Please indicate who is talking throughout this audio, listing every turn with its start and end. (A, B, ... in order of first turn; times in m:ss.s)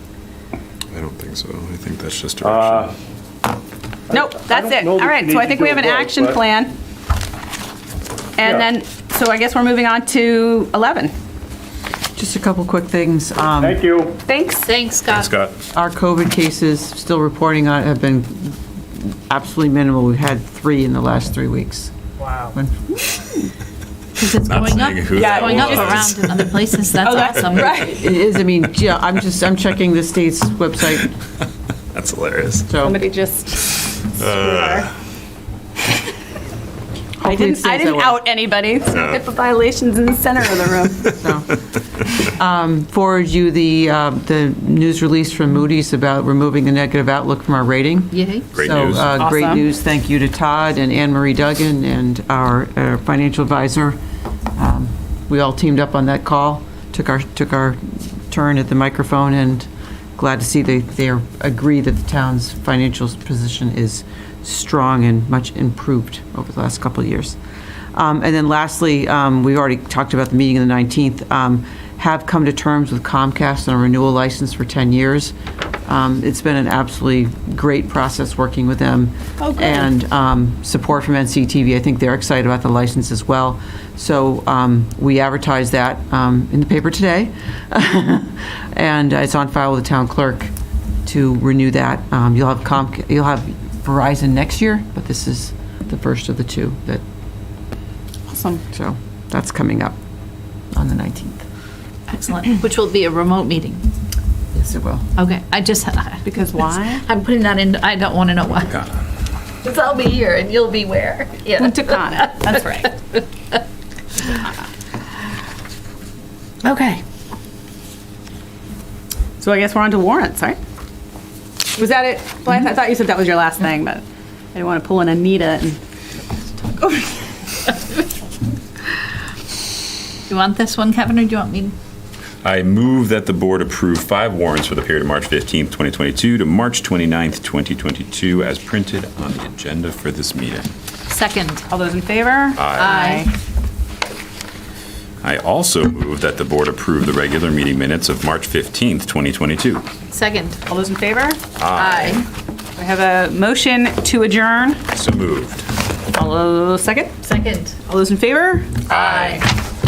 0:00.9-0:02.9 A
0:02.4-0:02.9 B
0:04.1-0:06.4 B
0:04.1-0:06.7 C
0:08.4-0:11.1 C
0:12.2-0:13.8 D
0:13.6-0:14.2 B
0:14.3-0:14.7 C
0:14.6-0:15.4 E
0:15.1-0:15.5 A
0:15.7-0:21.9 D
0:22.5-0:23.0 D
0:24.2-0:27.9 E
0:24.4-0:26.7 A
0:25.1-0:26.1 C
0:27.0-0:28.1 C
0:27.8-0:31.1 D
0:31.9-0:32.7 A
0:32.7-0:33.0 D
0:32.8-0:34.9 C
0:34.2-0:34.8 A
0:37.2-0:38.2 D
0:37.2-0:41.2 C
0:38.9-0:39.2 A
0:41.2-0:54.0 D
0:48.1-0:48.5 E
0:48.5-0:49.1 A
0:49.2-0:49.6 C
0:54.6-1:07.4 D
1:07.9-1:15.3 D
1:15.9-1:30.5 D
1:19.4-1:19.9 C
1:31.0-1:37.0 D
1:38.3-1:38.6 C
1:38.7-1:40.0 D
1:40.7-1:41.4 D
1:42.1-1:43.8 E
1:44.5-1:45.1 D
1:45.2-1:46.2 E
1:46.2-1:47.0 C
1:46.9-1:48.9 E
1:49.6-1:53.6 E
1:51.6-1:52.9 C
1:56.6-1:57.0 C
1:59.4-2:00.6 C
2:01.7-2:05.8 C
2:10.3-2:11.7 E
2:12.4-2:20.7 A
2:21.1-2:21.7 E
2:21.7-2:23.3 C
2:22.6-2:23.0 A
2:22.7-2:23.3 E
2:25.2-2:30.0 A
2:30.1-2:30.6 E
2:30.7-2:31.4 C
2:31.6-2:32.2 A
2:31.7-2:32.2 E
2:32.8-2:34.8 C
2:34.9-2:35.7 A
2:36.1-2:37.2 C
2:37.2-2:37.8 E
2:37.8-2:38.7 C
2:38.9-2:39.5 E
2:38.9-2:39.5 A